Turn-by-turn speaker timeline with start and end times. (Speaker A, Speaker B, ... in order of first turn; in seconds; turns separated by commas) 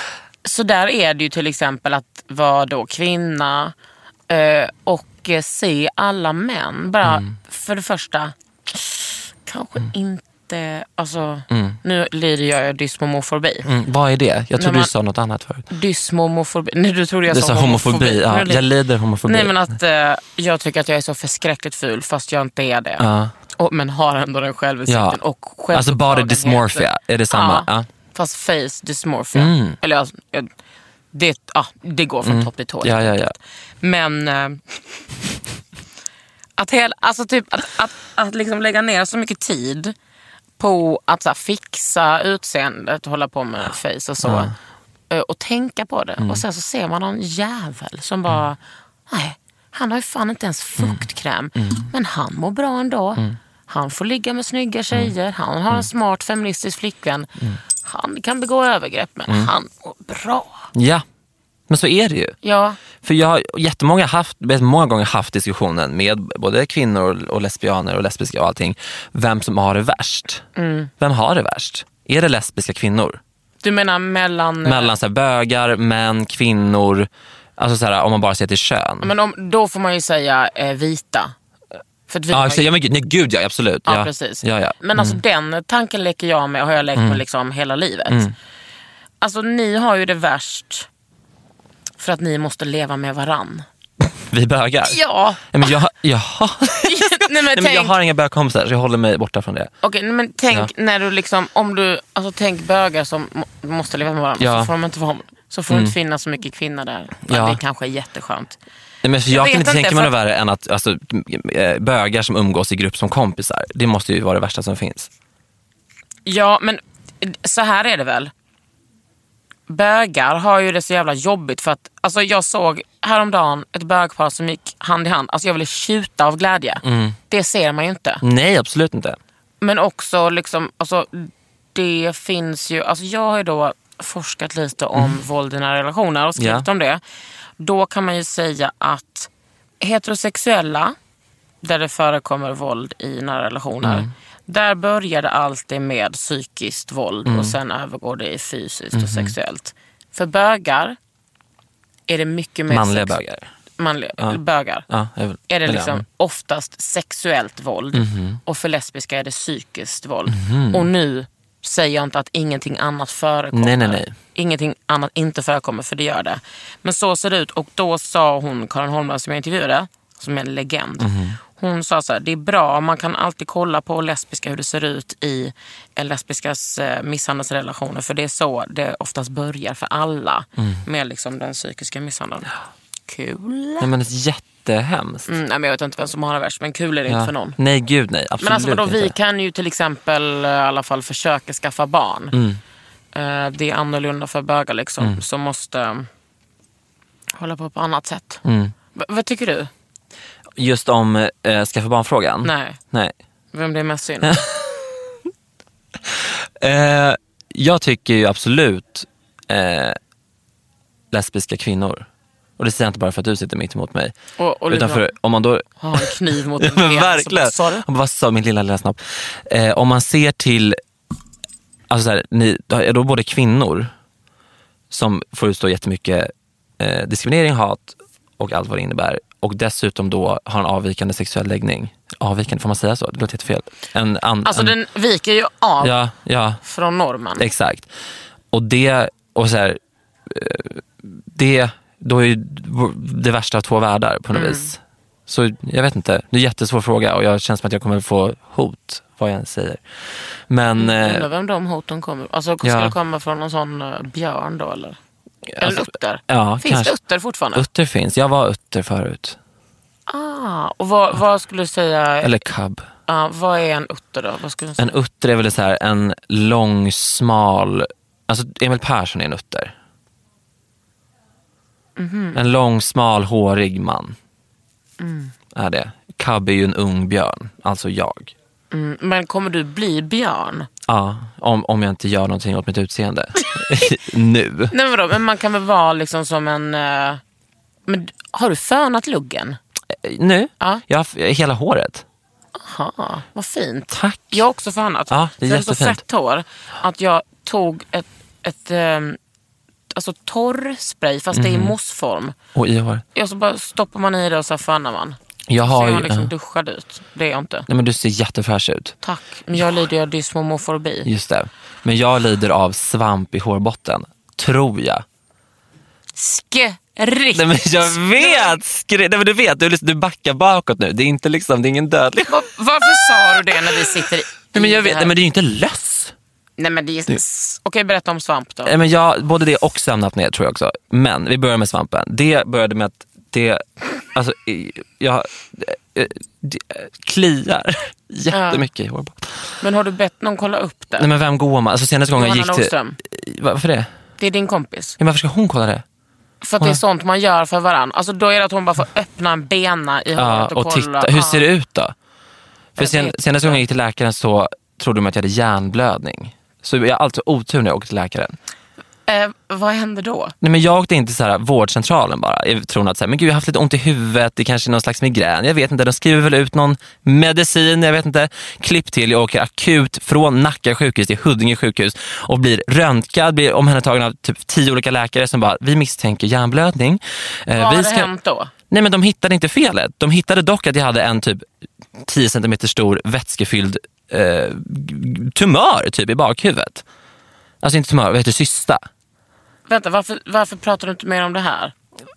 Speaker A: 0.4-3.7, Speaker A: 4.3-13.7, Speaker B: 7.0-7.3, Speaker B: 11.5-11.8, Speaker B: 13.6-15.7, Speaker A: 14.6-14.9, Speaker A: 15.7-18.6, Speaker B: 17.3-19.7, Speaker A: 19.2-30.5, Speaker B: 23.0-23.3, Speaker B: 24.9-25.2, Speaker B: 25.7-27.9, Speaker B: 29.3-29.8, Speaker A: 31.1-34.8, Speaker B: 32.2-33.4, Speaker A: 36.6-39.9, Speaker A: 40.6-44.5, Speaker B: 44.2-44.5, Speaker A: 45.1-60.7, Speaker B: 50.8-51.0, Speaker B: 51.5-51.9, Speaker B: 60.7-61.0, Speaker B: 61.7-62.4, Speaker A: 62.4-62.8, Speaker B: 63.0-70.5, Speaker A: 70.5-70.9, Speaker B: 71.0-73.2, Speaker A: 73.6-74.9, Speaker B: 74.6-79.1, Speaker A: 79.0-81.3, Speaker A: 82.1-82.7, Speaker B: 82.3-85.2, Speaker A: 83.8-88.2, Speaker B: 87.0-87.2, Speaker B: 88.1-88.3, Speaker A: 89.2-90.9, Speaker A: 92.0-93.6, Speaker B: 94.0-99.7, Speaker A: 94.9-95.7, Speaker A: 96.8-97.9, Speaker A: 99.8-108.6, Speaker B: 104.4-104.7, Speaker B: 105.7-106.0, Speaker B: 107.3-107.6, Speaker B: 109.0-115.1, Speaker A: 109.3-110.1, Speaker A: 116.2-118.3, Speaker A: 119.7-128.2, Speaker B: 126.8-127.2, Speaker B: 128.2-129.2, Speaker A: 129.6-137.0, Speaker B: 136.4-136.7, Speaker A: 137.6-139.3, Speaker A: 139.8-140.9, Speaker A: 141.6-151.0, Speaker B: 143.8-144.1, Speaker B: 147.2-147.6, Speaker B: 148.9-149.3, Speaker A: 152.1-153.2, Speaker B: 152.7-153.5, Speaker A: 153.8-154.9, Speaker B: 154.2-156.0, Speaker A: 155.5-182.5, Speaker B: 157.9-158.4, Speaker B: 160.3-160.9, Speaker B: 163.5-164.1, Speaker B: 171.0-171.4, Speaker B: 180.6-180.8, Speaker A: 183.1-183.9, Speaker B: 183.8-185.3, Speaker A: 185.3-187.6, Speaker B: 187.1-189.2, Speaker A: 188.4-192.3, Speaker B: 192.3-192.6, Speaker A: 193.1-196.1, Speaker A: 197.4-199.7, Speaker B: 198.4-198.7, Speaker B: 200.6-203.1, Speaker A: 202.4-202.8, Speaker A: 203.5-204.4, Speaker B: 204.2-204.9, Speaker B: 206.1-210.0, Speaker B: 211.1-214.1, Speaker A: 214.4-215.1, Speaker B: 214.7-220.8, Speaker A: 215.8-217.8, Speaker B: 221.9-223.9, Speaker B: 224.9-234.8, Speaker A: 234.4-235.9, Speaker B: 235.8-236.6, Speaker A: 236.6-237.4, Speaker B: 237.4-237.9, Speaker B: 238.5-251.3, Speaker A: 244.3-244.7, Speaker A: 250.8-255.0, Speaker B: 252.6-252.9, Speaker B: 255.5-257.0, Speaker A: 255.6-257.6, Speaker B: 257.5-259.4, Speaker A: 260.1-262.4, Speaker B: 262.2-262.9, Speaker A: 263.1-265.0, Speaker B: 264.8-269.7, Speaker A: 272.0-272.4, Speaker B: 272.3-274.2, Speaker A: 275.0-275.3, Speaker B: 275.5-278.3, Speaker A: 278.7-280.7, Speaker B: 280.9-284.7, Speaker A: 284.7-287.2, Speaker A: 287.9-289.6, Speaker B: 289.9-292.0, Speaker A: 292.6-299.2, Speaker B: 293.9-294.4, Speaker B: 295.1-296.0, Speaker A: 299.9-302.4, Speaker B: 301.3-301.8, Speaker B: 302.5-303.0, Speaker A: 303.1-307.7, Speaker B: 305.5-306.3, Speaker B: 307.7-308.9, Speaker A: 309.0-311.1, Speaker B: 311.0-315.0, Speaker A: 316.1-318.6, Speaker B: 317.3-324.0, Speaker A: 322.3-325.1, Speaker B: 324.5-326.1, Speaker A: 326.6-328.7, Speaker B: 328.6-339.5, Speaker A: 338.3-338.7, Speaker A: 339.6-341.1, Speaker B: 341.0-343.9, Speaker A: 342.1-343.0, Speaker A: 344.2-345.0, Speaker B: 345.0-345.8, Speaker A: 346.4-351.4, Speaker B: 350.1-351.9, Speaker B: 352.8-358.4, Speaker A: 352.8-353.6, Speaker A: 359.1-360.3, Speaker B: 360.4-378.1, Speaker A: 377.5-378.5, Speaker B: 378.7-381.4, Speaker B: 382.0-386.8, Speaker B: 387.6-388.8, Speaker A: 389.7-391.7